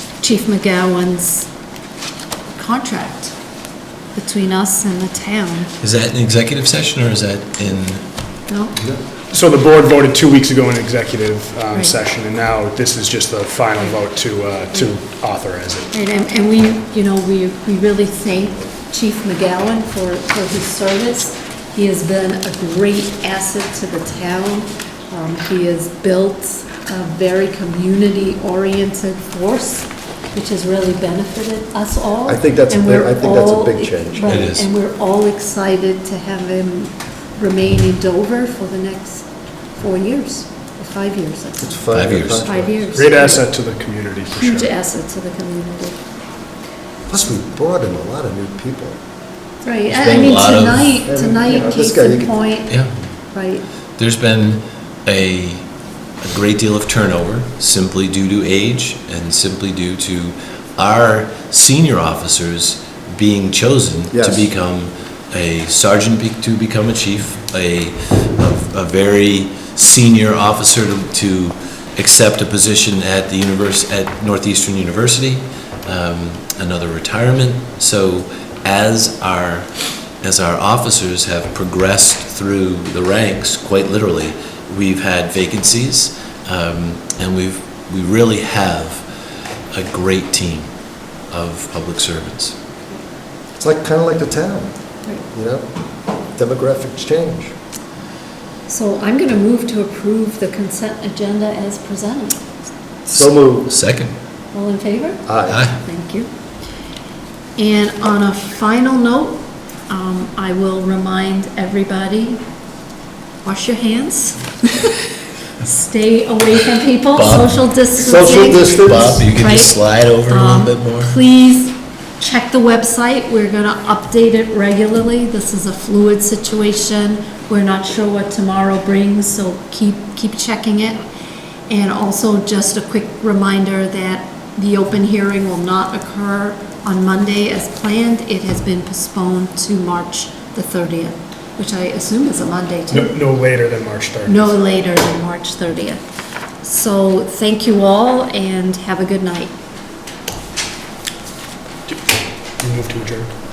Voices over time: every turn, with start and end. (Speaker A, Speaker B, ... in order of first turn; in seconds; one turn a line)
Speaker A: 0.2-1.5
Speaker A: 2.5-3.4
Speaker A: 4.1-5.7
Speaker B: 5.8-8.0
Speaker A: 8.5-8.8
Speaker C: 8.8-9.0
Speaker D: 9.3-15.9
Speaker A: 15.9-41.8
Speaker C: 32.2-34.5
Speaker B: 34.3-34.6
Speaker C: 41.6-43.0
Speaker B: 41.9-42.5
Speaker A: 42.4-43.5
Speaker D: 42.9-44.7
Speaker A: 44.3-46.0
Speaker C: 47.1-49.0
Speaker A: 49.6-52.8
Speaker B: 49.9-50.9
Speaker C: 51.0-52.4
Speaker B: 52.7-52.9
Speaker A: 53.3-53.6
Speaker B: 54.0-55.6
Speaker B: 56.2-79.7
Speaker C: 64.1-64.5
Speaker B: 80.2-89.0
Speaker B: 89.7-90.7
Speaker B: 91.3-92.6
Speaker C: 93.6-95.7
Speaker C: 96.3-97.5
Speaker A: 98.7-102.4
Speaker C: 103.0-103.7
Speaker B: 103.1-104.1
Speaker A: 104.5-106.3
Speaker C: 105.2-105.7
Speaker B: 105.5-105.8
Speaker A: 107.6-112.4
Speaker A: 113.4-115.0
Speaker A: 115.6-119.8
Speaker B: 117.1-121.2
Speaker C: 118.0-119.2
Speaker A: 120.3-131.0
Speaker A: 131.7-143.1
Speaker D: 142.9-144.5
Speaker A: 144.2-146.0
Speaker A: 146.6-149.5
Speaker D: 152.6-153.3